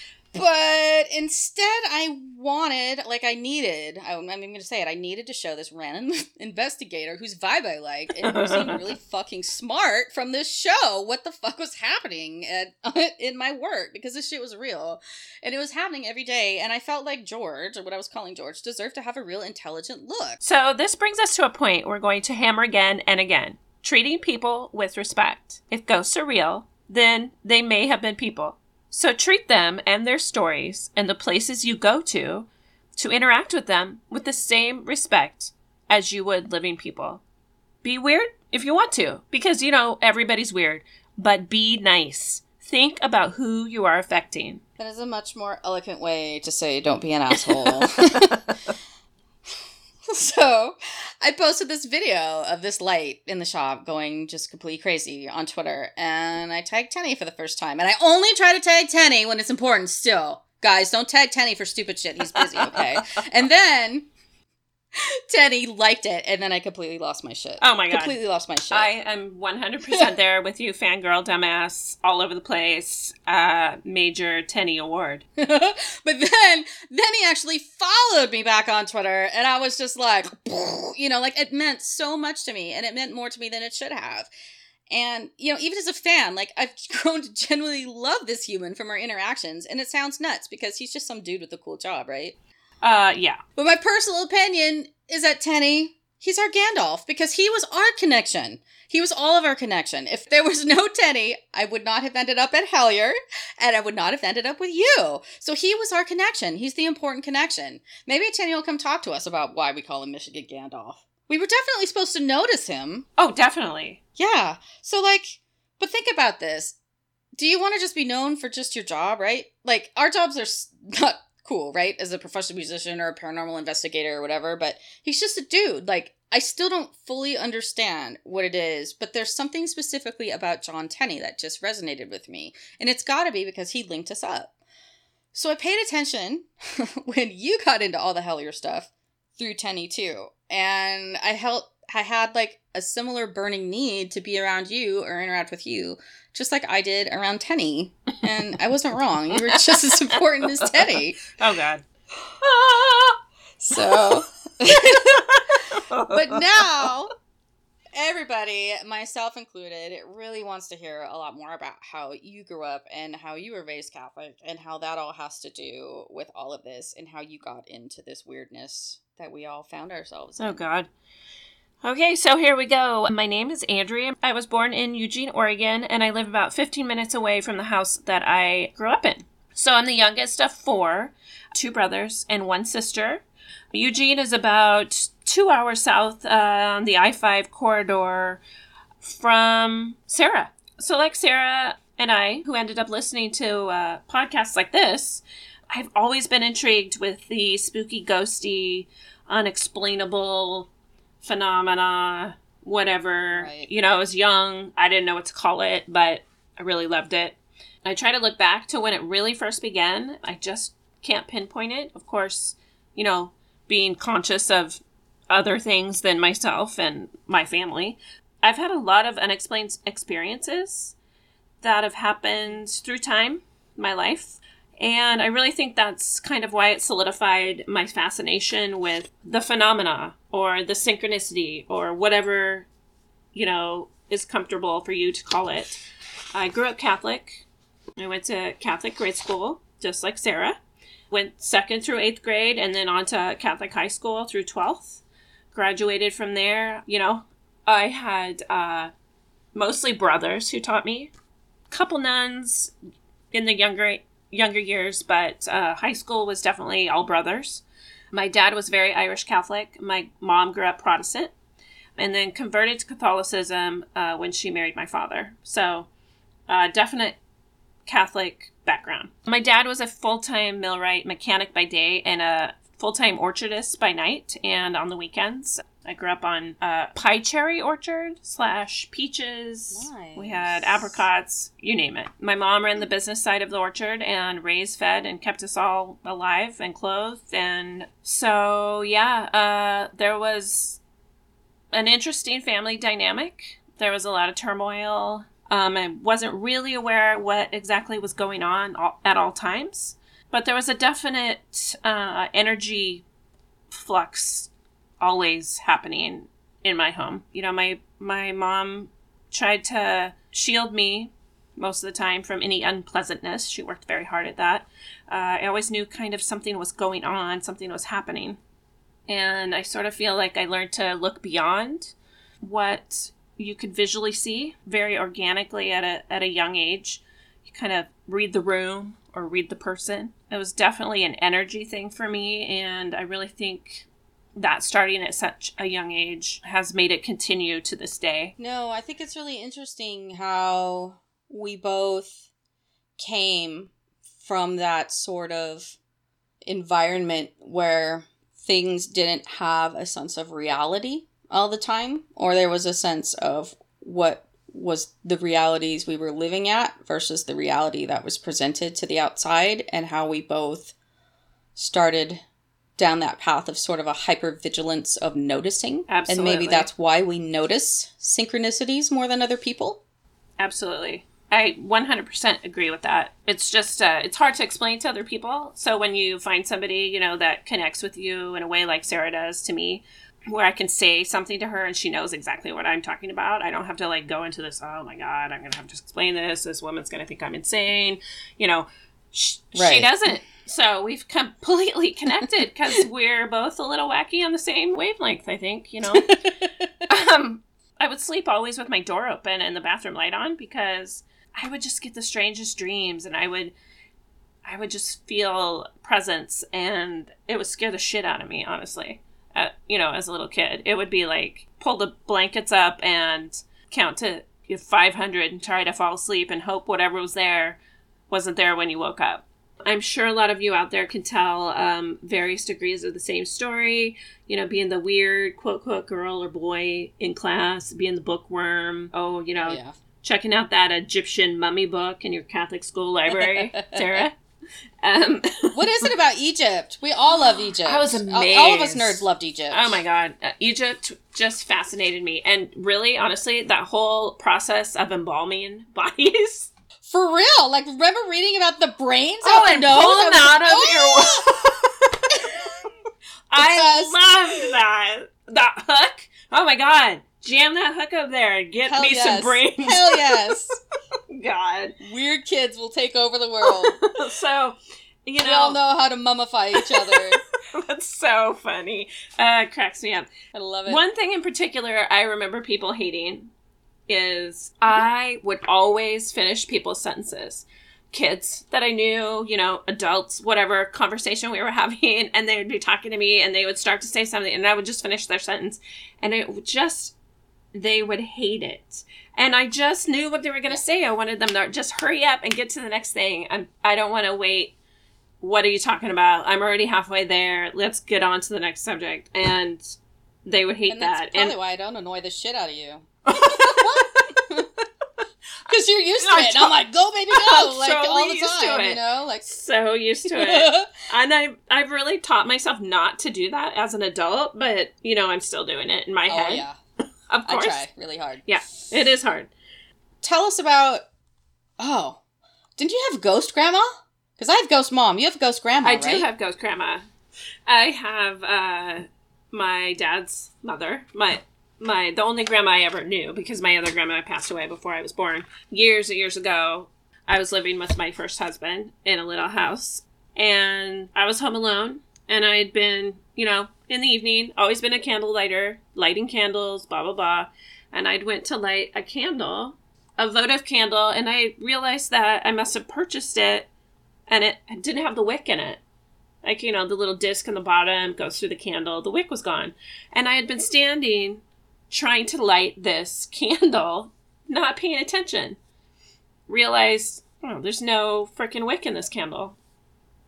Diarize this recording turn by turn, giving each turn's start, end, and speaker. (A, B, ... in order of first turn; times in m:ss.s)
0:00.3-0:20.4 A
0:08.2-0:08.8 B
0:20.4-0:37.2 B
0:37.8-0:44.6 B
0:44.8-0:48.4 A
0:50.1-1:04.1 A
1:02.3-1:03.0 B
1:04.9-1:08.9 A
1:07.6-1:08.2 B
1:08.7-1:15.2 B
1:15.4-1:24.3 A
1:24.9-1:32.4 A
1:32.8-1:33.4 B
1:33.6-1:53.1 A
1:53.2-1:54.0 B
1:54.2-1:56.8 A
1:57.4-2:14.5 A
2:15.3-2:31.2 A
2:29.4-2:30.7 B
2:31.4-2:31.8 B
2:32.4-2:33.2 B
2:33.6-2:37.1 A
2:33.8-2:34.1 B
2:35.2-2:36.4 B
2:37.9-2:50.6 A
2:50.4-2:50.9 B
2:51.8-3:08.4 B
3:09.0-3:20.7 B
3:21.2-3:40.9 B
3:23.3-3:23.7 A
3:41.6-3:52.7 B
3:53.3-3:55.8 B
3:56.3-3:57.4 B
3:58.0-4:08.9 B
4:09.5-4:11.1 B
4:11.7-4:12.7 B
4:13.3-4:21.3 B
4:22.0-4:25.9 B
4:26.5-4:27.2 B
4:27.8-4:50.8 B
4:39.7-4:41.0 A
4:51.7-5:03.0 B
5:03.7-5:18.4 B
5:19.1-5:38.3 B
5:38.4-5:42.2 A
5:43.0-5:45.8 A
5:46.4-6:00.7 A
6:01.6-6:02.2 A
6:02.8-6:09.8 A
6:05.9-6:06.7 B
6:10.4-6:36.1 B
6:29.5-6:29.9 A
6:35.9-6:36.8 A
6:36.9-6:43.5 B
6:44.4-6:57.6 B
6:58.1-7:14.2 B
7:09.4-7:09.7 A
7:13.2-7:14.1 A
7:14.8-7:15.9 B
7:15.5-7:19.8 A
7:17.6-7:26.5 B
7:26.8-7:31.4 A
7:29.2-7:32.5 B
7:32.1-7:32.6 A
7:33.3-7:40.4 B
7:33.4-7:34.4 A
7:38.6-7:40.6 A
7:41.1-7:41.8 B
7:41.8-7:43.8 A
7:43.4-7:45.6 B
7:45.2-7:47.2 A
7:46.6-7:50.1 B
7:50.3-7:50.8 A
7:50.6-7:53.3 B
7:53.9-8:06.9 B
8:07.5-8:14.5 B
8:15.2-8:21.4 B
8:20.7-8:24.6 A
8:23.1-8:24.0 B
8:25.5-8:29.3 A
8:26.0-8:36.4 B
8:30.1-8:30.7 A
8:36.1-8:36.6 A
8:37.1-8:37.6 B
8:37.2-8:38.2 A
8:38.2-8:39.3 B
8:40.0-8:40.8 A
8:41.6-8:42.0 A
8:42.6-8:46.0 A
8:45.6-8:46.8 B
8:47.5-9:13.5 B
9:14.1-9:15.6 B
9:16.2-9:25.4 B
9:26.3-9:29.4 B